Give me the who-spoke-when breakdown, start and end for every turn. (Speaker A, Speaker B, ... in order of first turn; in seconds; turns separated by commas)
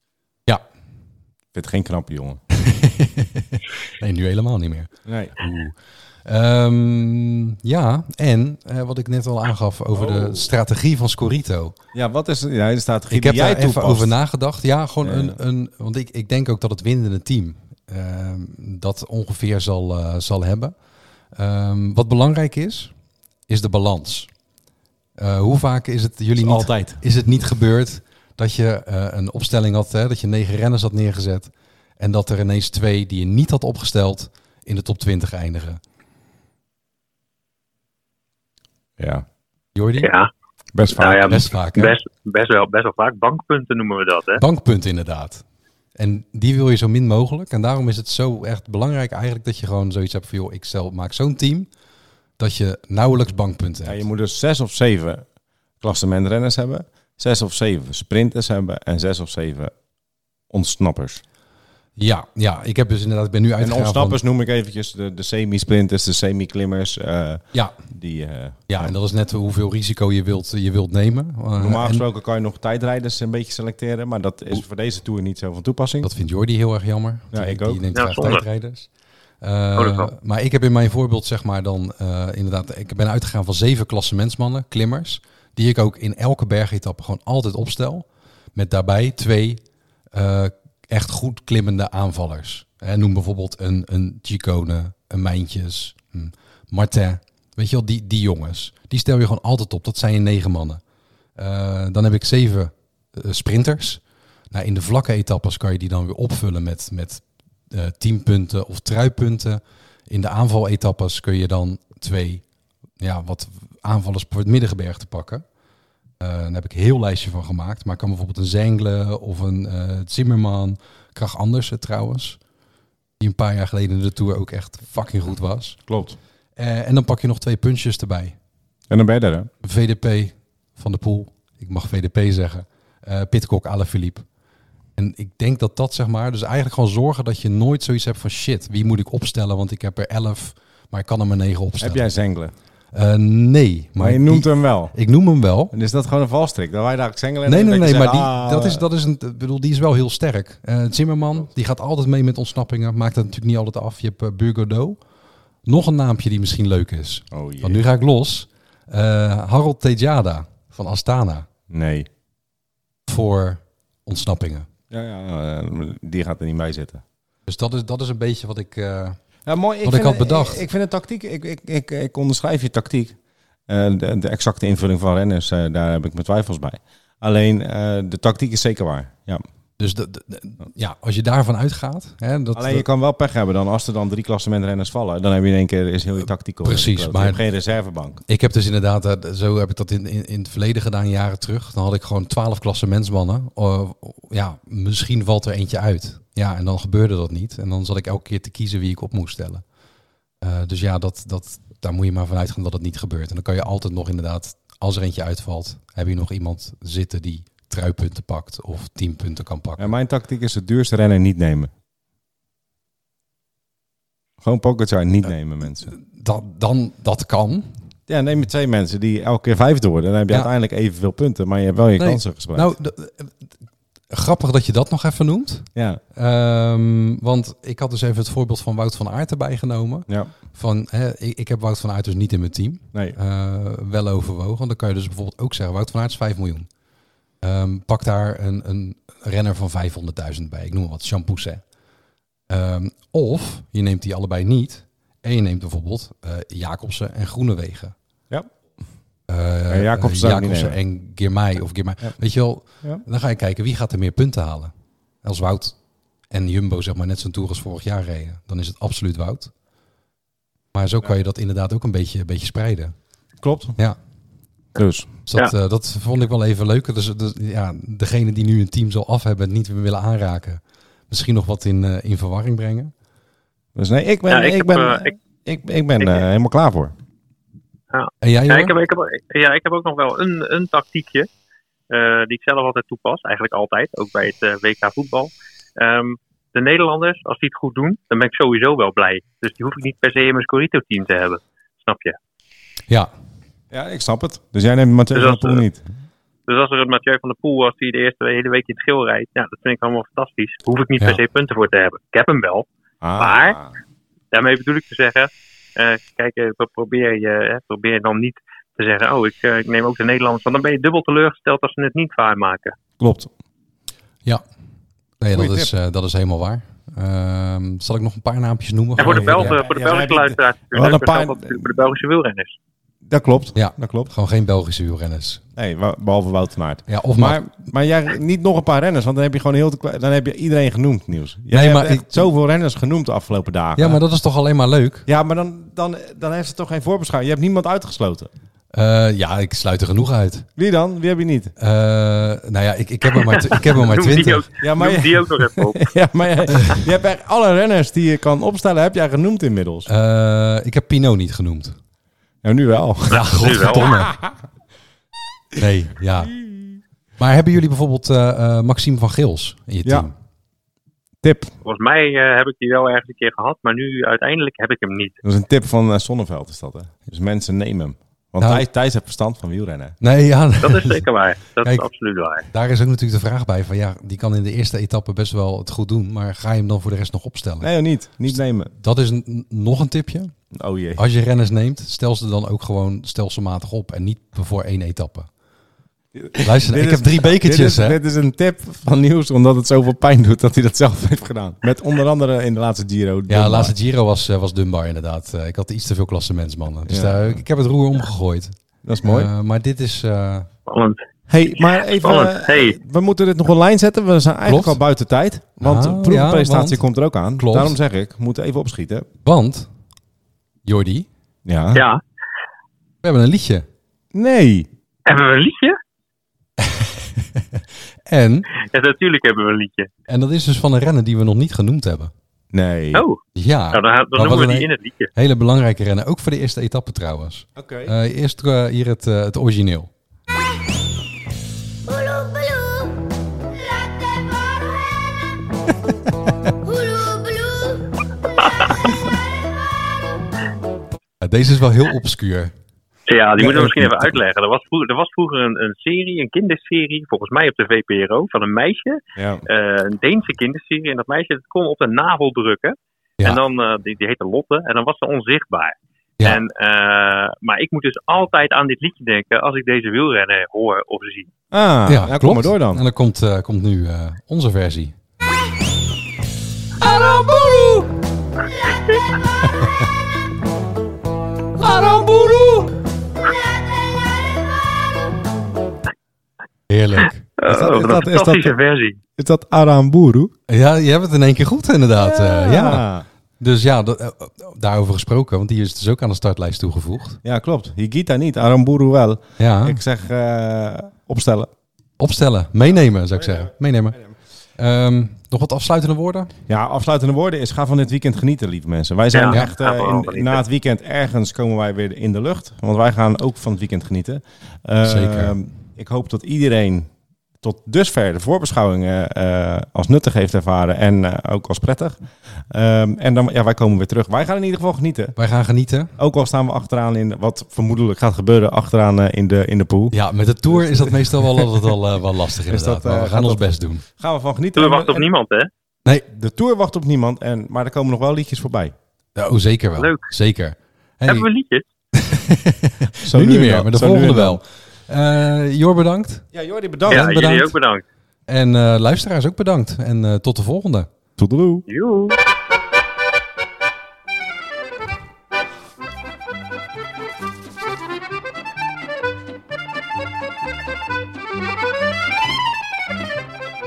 Speaker A: 1.5-2.4, Speaker B: 2.6-11.8, Speaker A: 5.1-5.3, Speaker A: 9.9-10.5, Speaker A: 11.9-14.1, Speaker B: 13.1-20.8, Speaker A: 15.0-15.4, Speaker B: 21.4-22.9, Speaker B: 23.5-24.3, Speaker B: 25.2-35.8, Speaker A: 26.4-27.0, Speaker A: 39.0-39.3, Speaker B: 39.8-40.1, Speaker C: 40.0-40.3, Speaker A: 40.7-41.4, Speaker C: 40.9-44.4, Speaker B: 41.3-42.0, Speaker B: 44.4-45.4, Speaker B: 46.0-51.7, Speaker B: 52.4-54.0, Speaker A: 53.9-55.3, Speaker A: 55.8-59.7, Speaker A: 60.5-61.2, Speaker B: 62.0-64.2, Speaker A: 63.6-68.9, Speaker B: 68.7-72.0, Speaker A: 71.6-76.1, Speaker B: 76.0-78.9, Speaker A: 77.3-77.8, Speaker C: 77.9-78.4, Speaker B: 79.4-89.6, Speaker C: 79.8-80.1, Speaker B: 90.1-100.8, Speaker B: 101.4-112.4, Speaker B: 113.0-115.4, Speaker B: 116.2-122.4, Speaker B: 123.2-125.8, Speaker A: 125.9-126.2, Speaker B: 126.6-128.4, Speaker A: 128.9-129.5, Speaker B: 129.6-134.3, Speaker B: 135.0-142.2, Speaker A: 141.8-142.5, Speaker B: 142.9-145.7, Speaker A: 144.0-145.0, Speaker A: 145.7-148.8, Speaker B: 147.5-155.0, Speaker B: 155.7-161.5, Speaker A: 157.3-157.8, Speaker A: 161.7-162.1, Speaker B: 163.1-164.7, Speaker A: 164.9-167.0, Speaker B: 167.5-169.2, Speaker A: 169.4-179.4, Speaker B: 169.8-170.7, Speaker B: 179.8-182.9, Speaker A: 182.6-188.2, Speaker B: 186.6-187.4, Speaker B: 188.3-199.6, Speaker B: 200.4-209.9, Speaker A: 209.8-211.7, Speaker A: 214.4-215.9, Speaker B: 215.9-217.8, Speaker A: 218.1-222.7, Speaker B: 222.0-223.5, Speaker B: 224.1-236.7, Speaker A: 225.8-226.0, Speaker A: 230.1-230.3, Speaker B: 237.4-241.6, Speaker B: 242.5-247.9, Speaker B: 249.3-259.5, Speaker A: 249.7-250.8, Speaker B: 260.7-263.0, Speaker A: 263.4-263.8, Speaker A: 264.8-265.1, Speaker B: 265.3-272.9, Speaker A: 273.8-276.9, Speaker C: 274.3-275.2, Speaker C: 277.9-281.3, Speaker B: 278.2-278.7, Speaker C: 281.9-292.2, Speaker A: 293.7-295.9, Speaker C: 295.1-295.6, Speaker C: 296.5-302.7, Speaker A: 303.0-303.7, Speaker C: 303.2-303.6, Speaker C: 304.3-312.8, Speaker A: 313.0-313.3, Speaker B: 315.2-319.6, Speaker A: 315.3-315.7, Speaker C: 319.0-322.5, Speaker A: 319.0-321.7, Speaker A: 323.1-324.1, Speaker B: 323.6-325.4, Speaker A: 325.6-334.0, Speaker B: 326.9-327.4, Speaker B: 331.5-332.3, Speaker B: 333.8-335.1, Speaker A: 335.1-338.3, Speaker B: 338.7-340.5, Speaker A: 340.6-341.5, Speaker B: 341.6-344.4, Speaker C: 343.2-345.9, Speaker A: 344.6-349.9, Speaker B: 346.5-346.9, Speaker B: 349.9-351.8, Speaker A: 352.4-354.4, Speaker B: 353.1-354.1, Speaker C: 353.1-353.9, Speaker B: 355.6-356.4, Speaker A: 356.5-356.8, Speaker B: 357.2-360.1, Speaker A: 361.2-361.6, Speaker C: 361.6-365.2, Speaker A: 365.2-370.0, Speaker B: 368.4-368.7, Speaker B: 370.0-371.0, Speaker C: 370.6-372.5, Speaker B: 372.5-377.7, Speaker A: 377.6-378.7, Speaker B: 378.3-380.3, Speaker A: 380.5-381.0, Speaker B: 381.0-385.3, Speaker A: 386.1-393.7, Speaker B: 386.4-388.0, Speaker B: 393.3-400.5, Speaker A: 396.9-397.4, Speaker A: 398.8-399.3, Speaker C: 400.7-401.0, Speaker A: 401.3-409.1, Speaker C: 401.9-402.8, Speaker B: 404.4-404.8, Speaker B: 405.6-407.8, Speaker B: 409.2-409.7, Speaker B: 410.6-411.1, Speaker A: 411.5-411.8, Speaker C: 411.8-412.0, Speaker B: 413.0-413.7, Speaker A: 414.1-414.7, Speaker C: 415.1-415.8, Speaker B: 416.6-418.5, Speaker C: 418.6-419.9, Speaker B: 420.1-422.1, Speaker A: 422.5-423.1, Speaker C: 422.9-423.2, Speaker B: 423.4-429.9, Speaker C: 423.7-425.1, Speaker A: 427.6-427.9, Speaker C: 438.4-438.8, Speaker B: 441.2-442.5, Speaker C: 443.1-461.3, Speaker B: 443.4-444.1, Speaker A: 449.2-449.4, Speaker A: 461.5-462.8, Speaker B: 461.9-465.0, Speaker A: 466.8-467.9, Speaker A: 471.6-472.7, Speaker B: 476.7-477.3, Speaker C: 477.4-479.0, Speaker A: 477.5-478.6, Speaker A: 479.2-480.3, Speaker B: 480.5-482.9, Speaker A: 482.0-483.1, Speaker B: 483.4-487.2, Speaker A: 487.2-491.5, Speaker B: 489.4-489.8, Speaker B: 492.0-496.3, Speaker A: 493.2-494.1, Speaker A: 496.5-506.9, Speaker C: 499.1-500.4, Speaker B: 504.8-505.4, Speaker A: 507.4-515.1, Speaker B: 515.2-515.9, Speaker A: 516.0-520.0, Speaker B: 519.9-523.9, Speaker A: 520.5-521.8, Speaker A: 522.5-525.1, Speaker C: 524.6-525.5, Speaker A: 526.1-528.7, Speaker B: 529.2-531.3, Speaker C: 529.8-530.0, Speaker C: 531.1-531.6, Speaker B: 531.9-536.3, Speaker A: 533.0-534.4, Speaker A: 536.3-537.1, Speaker B: 536.9-537.5, Speaker C: 536.9-537.8, Speaker B: 538.3-540.9, Speaker A: 541.2-541.7, Speaker C: 541.7-542.2